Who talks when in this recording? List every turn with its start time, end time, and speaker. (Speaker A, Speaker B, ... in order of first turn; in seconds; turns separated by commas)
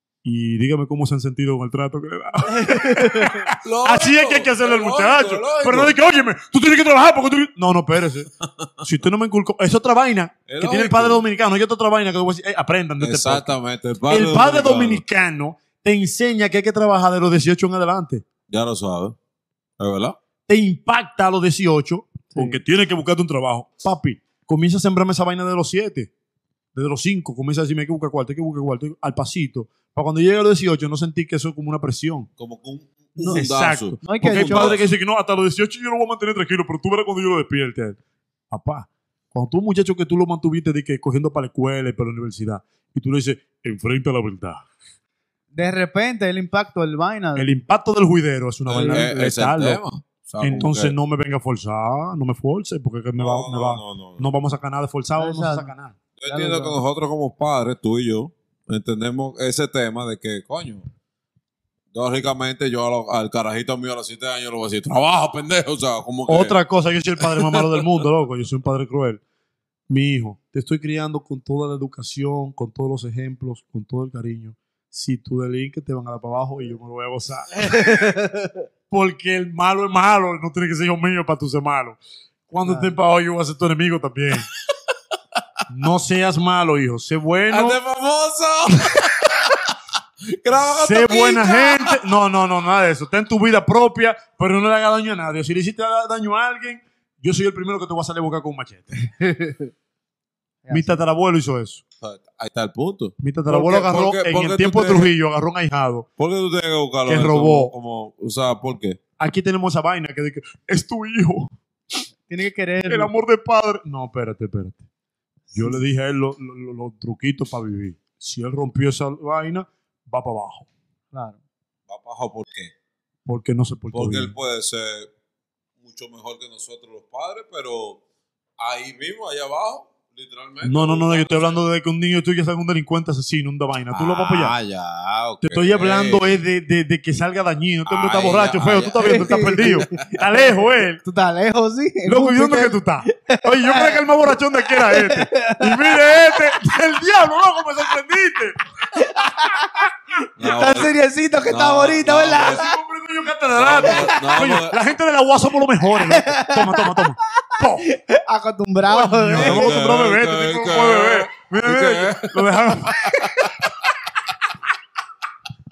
Speaker A: 0.2-8.3, Speaker B: 2.5-3.5, Speaker C: 3.6-6.0, Speaker A: 8.8-13.6, Speaker C: 10.5-11.2, Speaker C: 13.0-15.0, Speaker A: 14.1-18.2, Speaker C: 18.5-19.2, Speaker C: 19.8-20.2, Speaker A: 20.5-26.1, Speaker B: 22.3-22.6, Speaker A: 26.8-32.3, Speaker C: 32.4-35.0, Speaker B: 33.2-33.5, Speaker A: 33.3-38.0, Speaker B: 34.0-34.7, Speaker A: 38.5-44.7, Speaker B: 45.5-47.5, Speaker A: 47.4-49.8, Speaker C: 48.7-50.9, Speaker B: 48.8-49.1, Speaker A: 50.4-56.0, Speaker C: 53.2-54.3, Speaker B: 55.2-55.7, Speaker C: 56.2-60.9, Speaker B: 56.3-56.8, Speaker C: 61.9-66.6, Speaker A: 66.3-69.2, Speaker C: 67.2-68.0, Speaker A: 69.9-77.9, Speaker B: 77.6-78.6, Speaker A: 78.9-82.0, Speaker A: 82.5-84.5, Speaker B: 82.6-82.9, Speaker C: 84.9-85.4, Speaker A: 85.7-87.8, Speaker C: 87.5-92.0, Speaker A: 90.6-99.2, Speaker B: 99.2-99.7, Speaker B: 100.7-101.0, Speaker A: 100.7-101.8, Speaker C: 102.0-105.1, Speaker A: 103.2-106.1, Speaker C: 106.2-109.0, Speaker A: 107.1-107.7, Speaker A: 109.2-112.0, Speaker B: 112.3-113.1, Speaker A: 112.9-114.8, Speaker A: 115.5-120.7, Speaker B: 121.1-121.4, Speaker C: 121.9-122.7, Speaker A: 123.3-124.3, Speaker C: 123.9-125.1, Speaker C: 125.8-128.0, Speaker C: 128.6-131.7, Speaker A: 130.6-134.6, Speaker C: 133.9-136.4, Speaker A: 135.4-141.0, Speaker C: 137.9-140.1, Speaker B: 139.0-146.5, Speaker A: 142.1-148.6, Speaker B: 148.9-152.8, Speaker C: 150.4-150.9, Speaker C: 151.5-152.6, Speaker A: 152.3-157.9, Speaker C: 153.6-154.8, Speaker B: 153.8-154.3, Speaker B: 156.1-159.8, Speaker A: 158.9-163.7, Speaker C: 159.3-163.7